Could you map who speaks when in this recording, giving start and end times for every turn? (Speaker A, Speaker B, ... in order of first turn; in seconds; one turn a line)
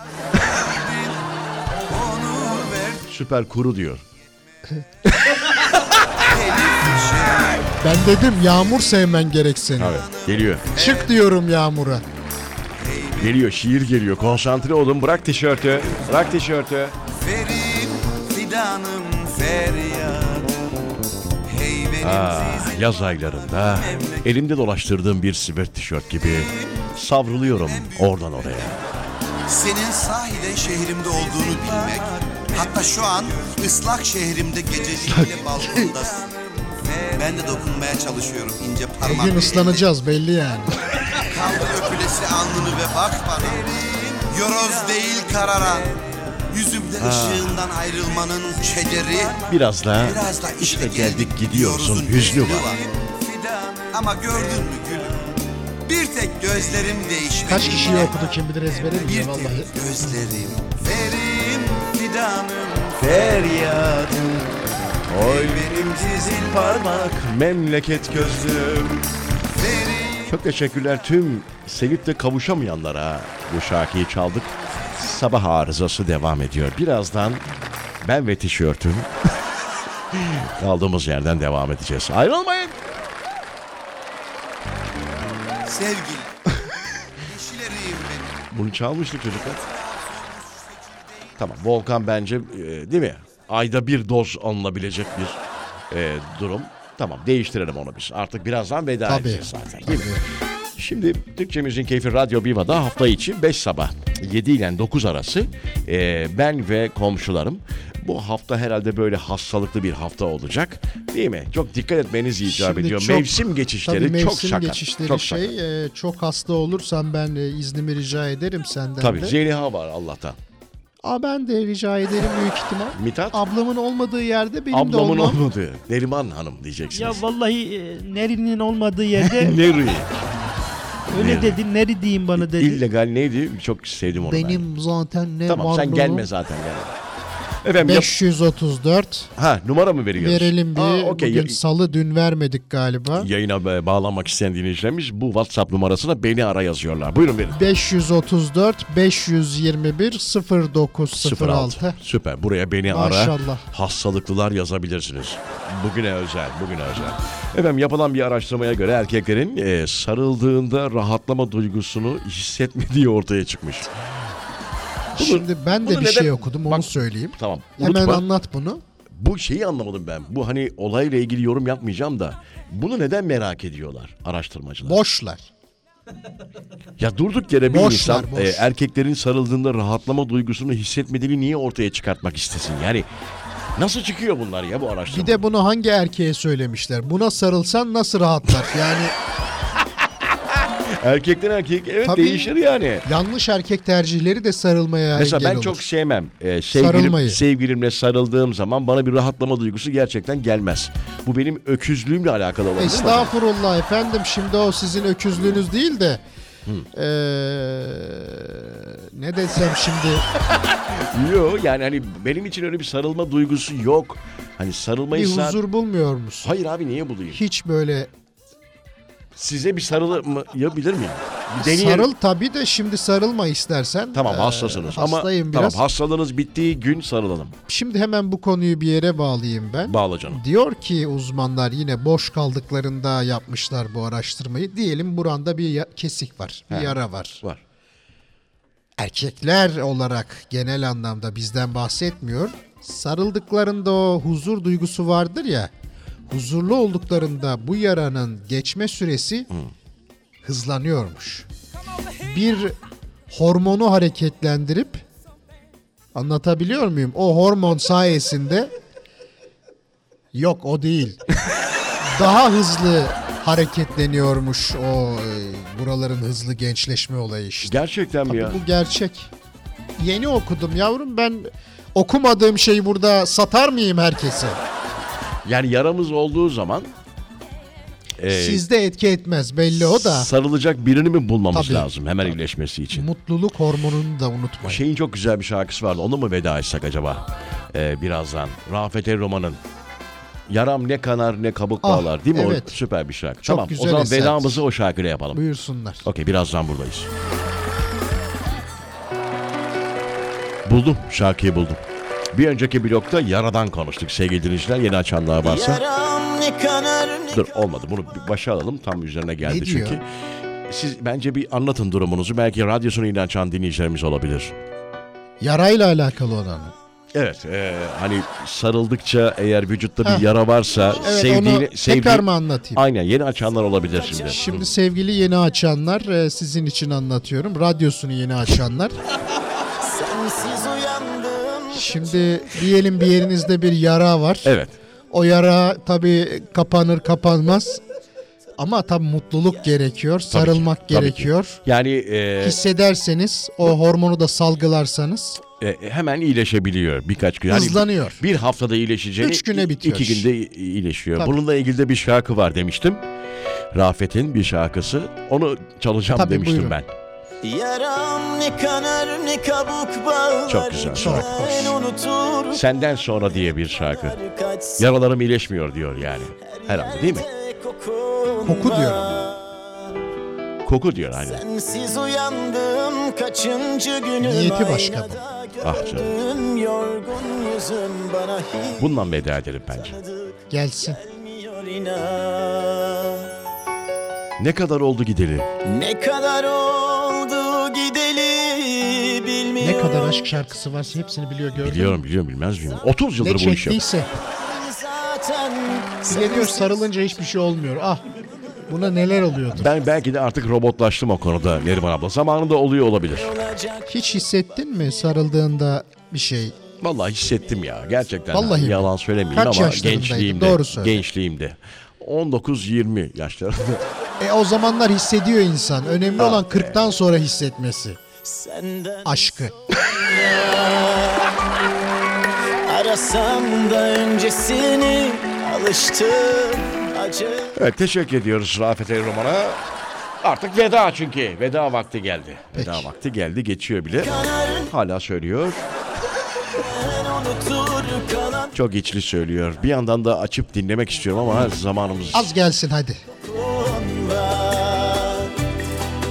Speaker A: 0.2-1.3
Speaker A: 1.9-3.1
Speaker B: 3.1-4.0
Speaker A: 6.2-7.7
Speaker C: 7.8-10.0
Speaker B: 9.8-10.7
Speaker A: 9.8-11.2
Speaker C: 10.8-12.0
Speaker A: 12.8-13.3
Speaker B: 13.2-17.0
Speaker A: 17.1-20.6
Speaker A: 21.4-24.3
Speaker B: 22.0-28.8
Speaker A: 26.3-26.9
Speaker A: 27.4-28.8
Speaker A: 29.4-39.9
Speaker B: 35.0-36.0
Speaker C: 39.0-40.8
Speaker A: 41.1-58.2
Speaker B: 47.0-47.7
Speaker B: 49.5-52.7
Speaker C: 57.4-59.7
Speaker A: 58.8-63.5
Speaker B: 63.0-64.4
Speaker B: 65.1-69.1
Speaker A: 65.1-67.2
Speaker A: 69.5-70.4
Speaker B: 70.3-77.4
Speaker B: 78.0-79.1
Speaker B: 80.1-82.8
Speaker A: 85.6-86.6
Speaker A: 87.2-88.4
Speaker B: 88.5-89.6
Speaker A: 89.5-91.4
Speaker B: 91.4-95.4
Speaker B: 95.9-100.2
Speaker C: 99.0-100.2
Speaker B: 100.8-115.5
Speaker C: 112.5-119.3
Speaker B: 119.0-120.4
Speaker C: 121.0-125.4
Speaker B: 122.9-123.4
Speaker B: 124.7-127.2
Speaker D: 126.9-129.6
Speaker B: 129.2-130.1
Speaker B: 131.1-131.6
Speaker D: 131.1-132.8
Speaker B: 132.3-134.6
Speaker C: 134.2-136.3
Speaker B: 135.5-136.9
Speaker B: 137.6-138.2
Speaker C: 137.8-139.3
Speaker B: 139.4-141.6
Speaker C: 140.2-143.3
Speaker B: 143.2-147.6
Speaker C: 147.5-152.0
Speaker B: 151.1-164.2
Speaker C: 152.9-153.6
Speaker B: 165.1-168.3
Speaker C: 165.1-168.8
Speaker B: 169.1-175.0
Speaker C: 174.8-175.5
Speaker B: 177.0-183.1
Speaker C: 177.7-178.7
Speaker B: 183.8-185.4
Speaker C: 185.1-189.1
Speaker B: 190.0-193.0
Speaker C: 192.0-192.5
Speaker C: 193.0-195.8
Speaker B: 195.1-203.3
Speaker C: 196.7-197.4
Speaker C: 202.8-206.2
Speaker C: 206.9-210.2
Speaker B: 210.5-215.6
Speaker C: 215.1-216.5
Speaker B: 216.4-217.4
Speaker C: 217.3-218.1
Speaker B: 219.3-222.1
Speaker C: 221.6-225.8
Speaker B: 224.1-227.5
Speaker C: 227.7-237.4
Speaker B: 229.8-230.4
Speaker B: 236.7-237.6
Speaker C: 239.0-245.7
Speaker C: 246.3-249.5
Speaker C: 250.4-251.5
Speaker C: 252.2-252.8
Speaker C: 253.3-255.0
Speaker C: 256.1-258.7
Speaker C: 260.3-261.2
Speaker C: 262.0-269.3
Speaker B: 267.6-268.6
Speaker C: 270.0-274.6
Speaker B: 275.4-276.9
Speaker B: 278.2-278.6
Speaker C: 278.3-280.3
Speaker B: 279.7-283.1
Speaker C: 281.5-281.9
Speaker C: 282.9-284.8
Speaker B: 284.6-289.6
Speaker B: 290.5-295.4
Speaker C: 291.8-292.8
Speaker C: 293.4-294.6
Speaker C: 295.3-296.1
Speaker B: 296.0-297.1
Speaker B: 300.6-305.8
Speaker E: 305.4-307.5
Speaker B: 307.3-310.0
Speaker C: 309.4-310.0
Speaker B: 310.6-314.6
Speaker C: 315.4-316.7
Speaker B: 317.1-324.6
Speaker C: 320.0-320.3
Speaker C: 321.0-322.8
Speaker E: 323.9-324.6
Speaker C: 324.3-329.0
Speaker E: 329.8-332.5
Speaker C: 331.7-334.6
Speaker B: 334.4-334.7
Speaker C: 335.1-337.8
Speaker C: 338.6-341.6
Speaker B: 340.3-342.6
Speaker C: 342.4-345.4
Speaker B: 345.6-353.0
Speaker C: 347.5-348.2
Speaker C: 349.2-350.3
Speaker B: 353.7-356.9
Speaker C: 356.1-356.8
Speaker E: 357.4-362.6
Speaker B: 360.5-361.6
Speaker C: 360.9-361.7
Speaker B: 362.5-364.2
Speaker E: 363.7-364.9
Speaker B: 364.8-367.3
Speaker E: 366.4-369.9
Speaker C: 368.4-369.3
Speaker B: 370.6-371.4
Speaker E: 371.2-379.0
Speaker C: 374.2-375.2
Speaker B: 375.6-376.1
Speaker B: 378.8-379.9
Speaker E: 379.7-383.3
Speaker C: 380.5-381.0
Speaker B: 384.4-385.5
Speaker E: 385.6-390.3
Speaker C: 389.6-392.0
Speaker B: 391.6-393.8
Speaker C: 393.2-394.1
Speaker E: 394.3-396.8
Speaker C: 396.1-398.0
Speaker C: 398.7-399.7
Speaker B: 399.5-403.3
Speaker E: 403.1-404.2
Speaker C: 403.9-406.5
Speaker B: 406.8-413.9
Speaker C: 408.3-411.0
Speaker C: 414.2-418.0
Speaker B: 416.1-416.8
Speaker E: 418.2-421.4
Speaker C: 419.0-419.5
Speaker E: 422.6-427.6
Speaker B: 427.5-429.6
Speaker B: 430.2-435.7
Speaker C: 432.5-432.9
Speaker E: 434.0-434.7
Speaker E: 436.4-438.5
Speaker B: 438.5-442.3
Speaker C: 442.1-443.0
Speaker E: 443.1-445.3